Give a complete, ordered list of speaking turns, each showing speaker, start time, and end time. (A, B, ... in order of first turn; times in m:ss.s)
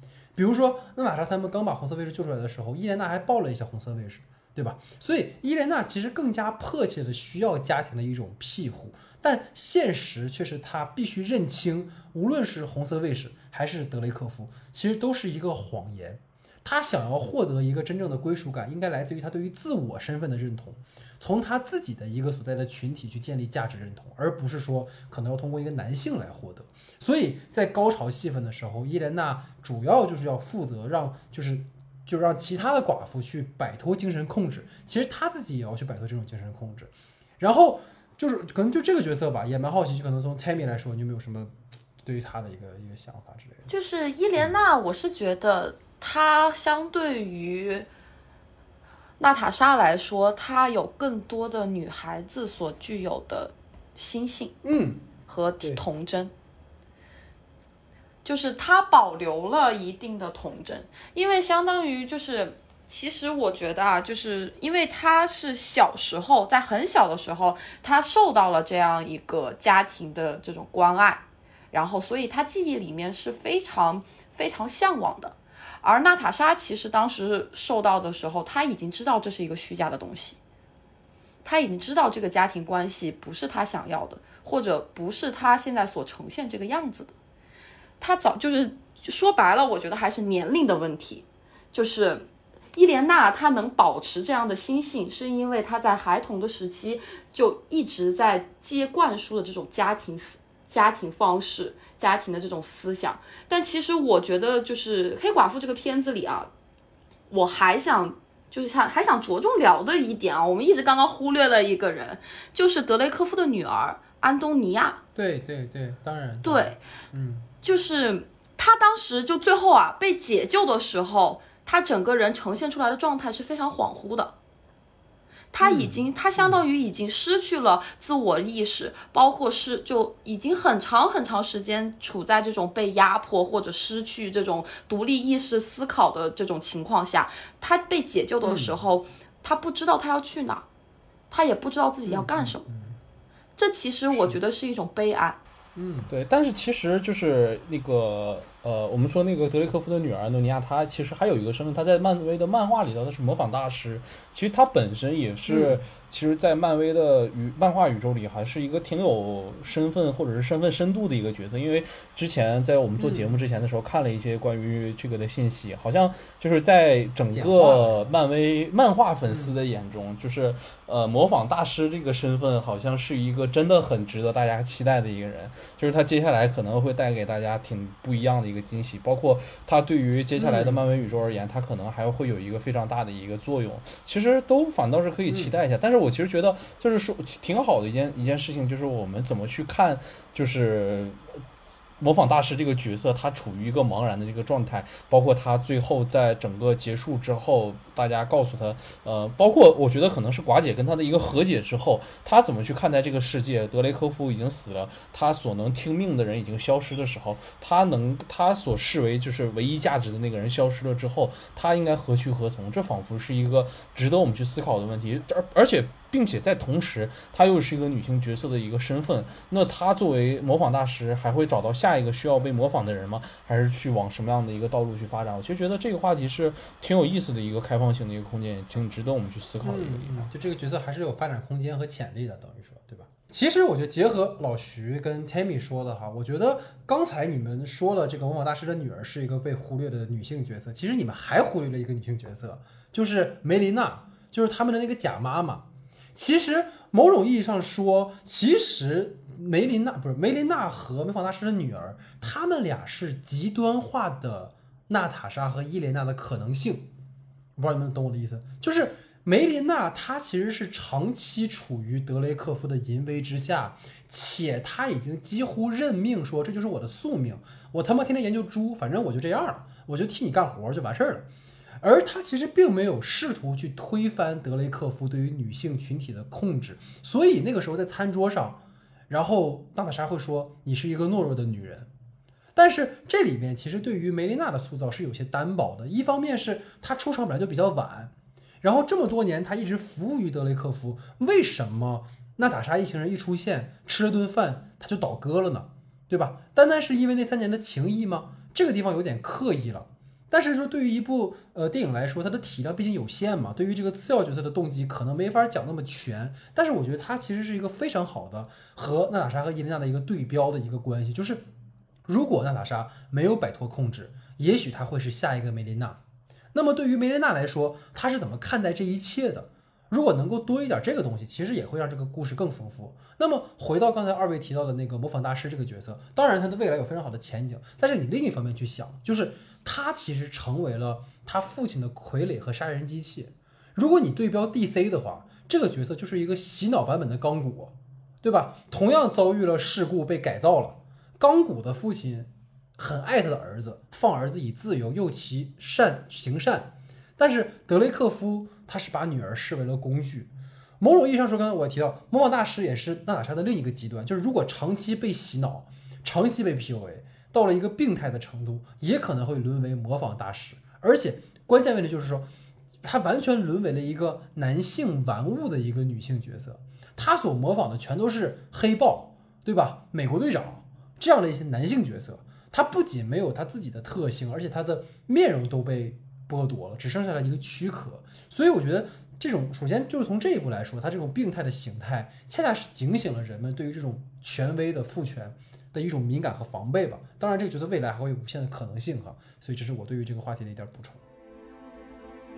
0:00.3-0:43.7 A
0:43.7-0:47.9 B
0:44.3-0:44.6 A
0:49.2-0:54.6 B
0:54.6-0:55.0 A
0:55.3-0:56.3 B
0:58.2-1:20.4 B
1:21.4-1:27.1 B
1:28.0-1:46.5 B
1:47.3-1:55.0 B
1:55.1-1:57.5 A
1:56.4-1:56.8 B
1:57.6-2:04.3 B
2:05.5-2:20.6 B
2:05.6-2:06.6 A
2:18.4-2:18.8 A
2:21.3-2:22.6 B
2:22.0-2:23.0 A
2:23.6-2:25.4 B
2:24.1-2:24.4 A
2:25.8-2:26.1 A
2:26.1-3:11.2 C
2:35.5-2:35.8 A
2:43.0-2:43.4 A
2:47.3-2:48.2 A
2:49.3-2:49.5 A
3:00.4-3:00.8 A
3:05.3-3:05.6 A
3:12.0-3:50.3 C
3:49.6-4:16.9 A
4:17.6-4:31.3 A
4:31.8-4:41.9 A
4:42.5-5:11.5 A
5:12.0-5:16.0 A
5:16.5-6:02.3 A
6:02.8-6:31.0 A